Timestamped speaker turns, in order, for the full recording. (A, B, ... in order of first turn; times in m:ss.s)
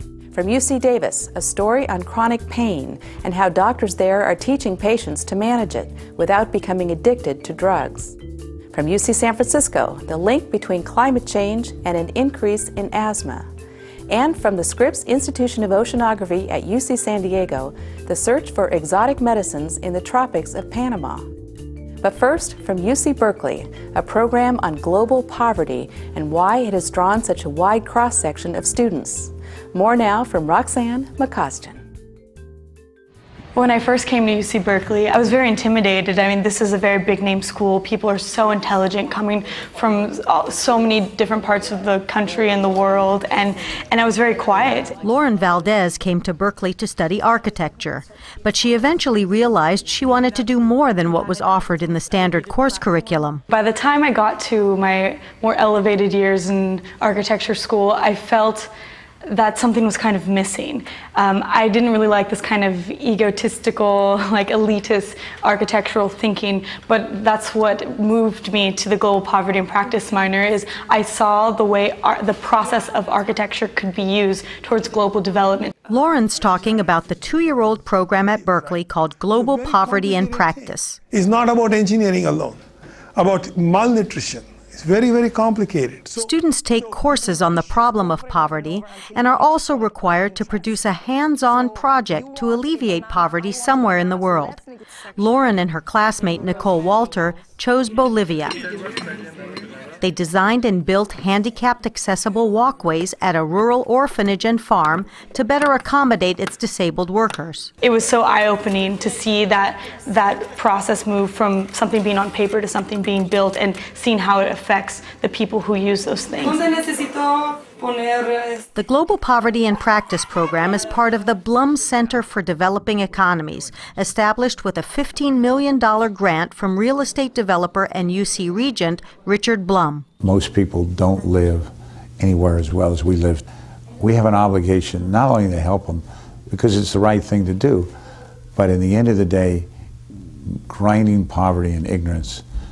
0:00.3-0:08.2 A
0:08.7-0:13.5 A
0:14.1-0:21.3 A
0:22.0-0:31.8 A
0:33.6-0:45.0 B
0:45.0-0:53.4 C
0:53.5-0:58.7 B
0:59.2-1:15.7 B
1:15.9-1:21.0 C
1:21.1-1:22.6 D
1:23.2-1:26.2 D
1:26.2-1:34.6 C
1:35.2-1:38.6 C
1:40.0-1:47.7 C
1:47.8-1:56.7 B
1:58.8-2:10.0 C
2:10.2-2:13.5 E
2:14.0-2:17.9 E
2:18.6-2:19.7 E
2:20.7-2:22.4 E